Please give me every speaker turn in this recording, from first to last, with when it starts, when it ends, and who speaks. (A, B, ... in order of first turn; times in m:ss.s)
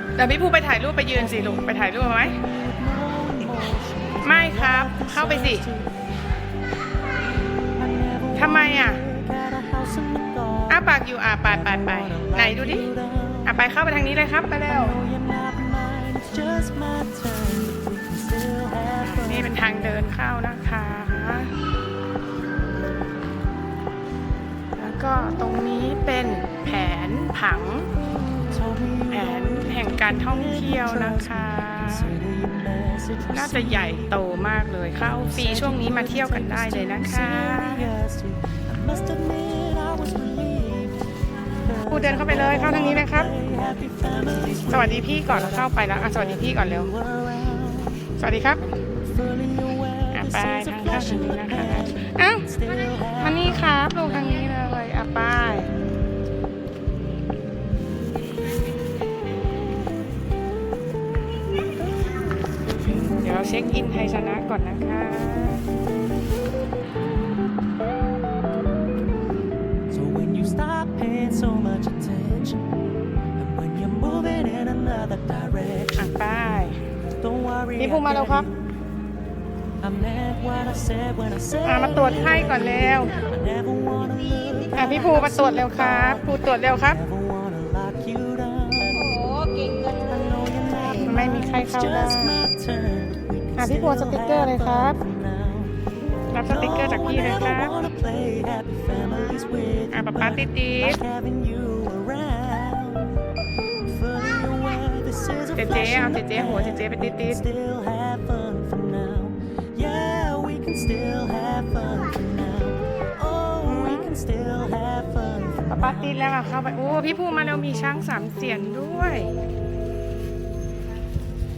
0:00.2-0:02.4 A
0:02.5-0:05.8 B
0:04.2-0:05.7 A
0:07.8-0:10.7 B
0:08.4-0:09.0 A
0:10.7-0:12.9 A
0:11.5-0:13.4 B
0:13.4-0:15.0 A
0:14.8-0:19.5 B
0:19.0-0:21.5 A
0:24.8-0:27.9 A
0:28.6-0:31.3 B
0:29.1-0:32.2 A
0:32.1-0:33.8 B
0:33.3-0:37.9 A
0:35.2-0:40.9 B
0:41.8-0:45.6 B
0:41.9-0:43.3 A
0:44.7-0:46.9 A
0:46.2-0:47.7 B
0:48.2-0:48.6 A
0:49.2-0:51.8 B
0:50.1-0:52.5 A
0:52.5-0:53.5 B
0:53.2-0:55.7 A
1:02.9-1:05.6 A
1:09.9-1:12.5 B
1:13.4-1:16.0 B
1:16.0-1:16.9 A
1:17.3-1:18.5 B
1:17.8-1:18.5 A
1:19.8-1:26.2 B
1:21.6-1:23.2 A
1:24.7-1:27.0 A
1:27.0-1:29.1 B
1:28.9-1:30.8 C
1:30.1-1:35.6 B
1:31.0-1:32.4 A
1:33.6-1:35.0 A
1:36.3-1:37.8 A
1:36.5-1:40.4 B
1:39.9-1:41.0 A
1:40.9-1:43.1 B
1:44.0-1:55.9 B
1:45.6-1:47.5 A
1:51.8-1:52.3 C
1:53.6-1:54.2 A
1:55.7-1:59.4 A